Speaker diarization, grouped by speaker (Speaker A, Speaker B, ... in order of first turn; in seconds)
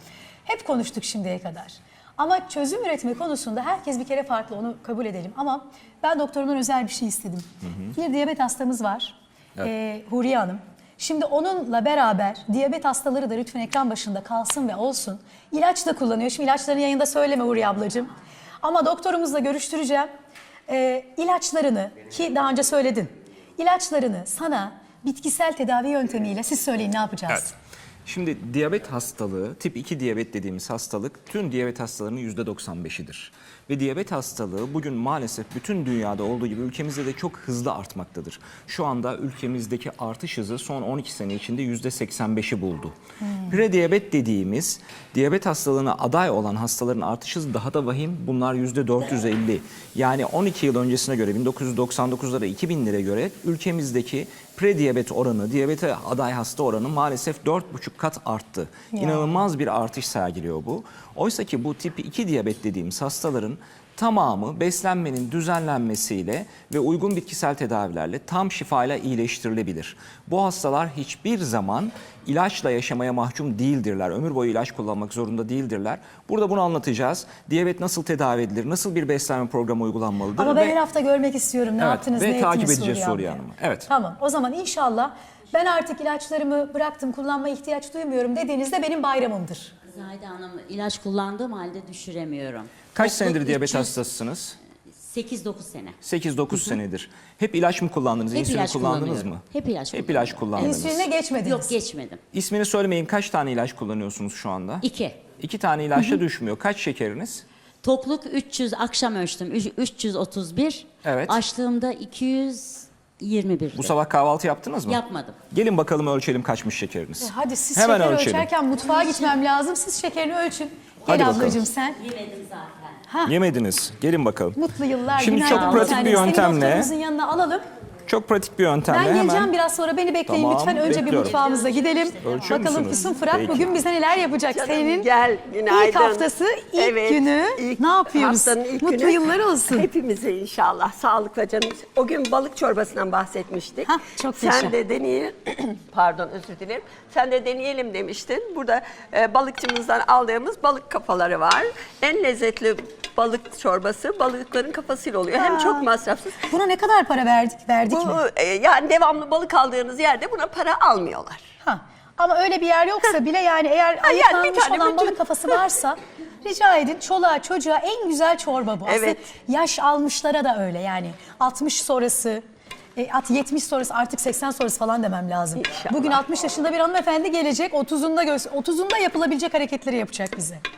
Speaker A: 0.5-18.1, 18.6-20.1, 20.7-27.5, 58.9-59.4, 80.4-89.7, 100.6-101.8, 117.2-122.0, 123.1-123.3, 124.6-127.6, 128.9-135.1, 135.7-139.9, 143.8-144.8, 155.3-155.9, 156.5-158.2, 161.6-172.4, 173.0-180.6
Speaker B: 28.1-80.8, 81.8-83.9, 92.9-94.6, 96.0-101.0, 102.3-104.8, 105.4-107.5, 111.0-111.4, 113.7-118.5, 121.0-121.7, 123.2-124.6, 125.2-126.9, 128.1-129.5, 130.3-131.4, 132.2-133.8
Speaker C: 89.9-94.0, 95.0-96.0, 96.5-96.8, 98.3-102.2, 104.8-105.2, 107.8-113.9, 114.9-115.4, 118.9-119.3, 122.0-123.0, 125.5-126.5, 130.8-133.5
Speaker D: 134.5-156.5, 157.9-161.5, 164.0-165.6, 168.8-169.2, 175.6-176.2